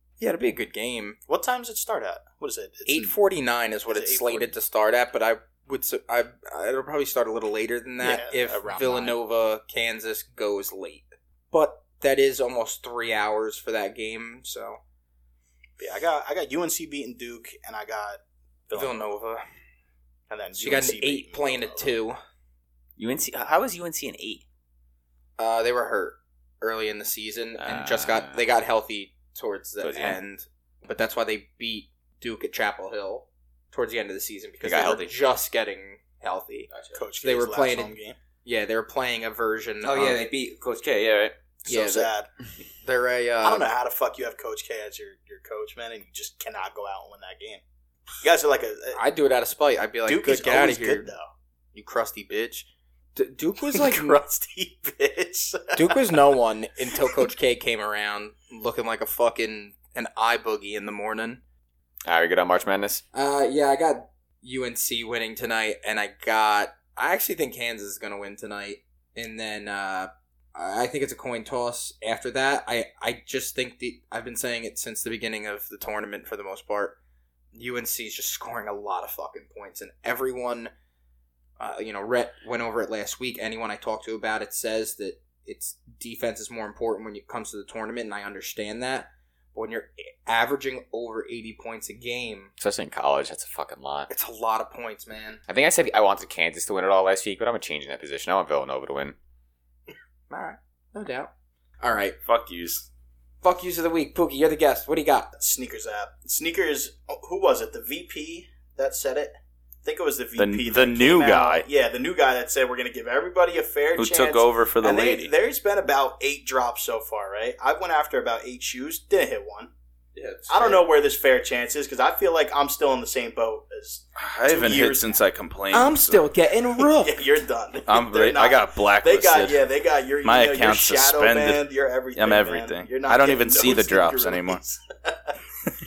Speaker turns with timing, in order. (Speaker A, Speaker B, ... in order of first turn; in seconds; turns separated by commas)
Speaker A: 0.2-1.2, Speaker B: 1.3-3.2, Speaker A: 2.9-14.8, Speaker B: 3.9-4.5, Speaker B: 8.0-9.2, Speaker B: 15.8-19.0, Speaker A: 18.7-19.4, Speaker B: 20.3-21.9, Speaker A: 20.6-22.2, Speaker C: 23.0-24.4, Speaker A: 25.4-36.7, Speaker C: 27.6-28.5, Speaker C: 29.8-30.2, Speaker C: 34.6-35.1, Speaker C: 36.7-37.0, Speaker B: 36.9-38.2, Speaker A: 37.2-40.3, Speaker C: 39.8-41.4, Speaker A: 41.7-42.1, Speaker B: 41.7-42.3, Speaker A: 42.8-43.7, Speaker B: 43.4-47.6, Speaker B: 48.2-49.0, Speaker A: 49.0-51.1, Speaker B: 50.1-51.3, Speaker A: 51.7-54.2, Speaker B: 53.7-56.0, Speaker A: 55.8-61.4, Speaker C: 62.0-63.0, Speaker A: 63.1-77.0, Speaker A: 77.5-80.7, Speaker A: 81.6-92.5, Speaker C: 92.6-94.1, Speaker A: 94.1-95.4, Speaker C: 95.5-99.2, Speaker A: 100.3-101.3, Speaker A: 101.8-102.2, Speaker D: 102.2-102.9, Speaker A: 103.4-105.3, Speaker B: 105.4-119.7, Speaker D: 110.4-111.7, Speaker D: 114.0-115.3, Speaker D: 120.2-120.9, Speaker B: 120.5-125.2, Speaker D: 124.2-126.3, Speaker A: 125.7-127.3, Speaker B: 127.0-135.4, Speaker D: 127.9-129.7, Speaker D: 130.2-134.6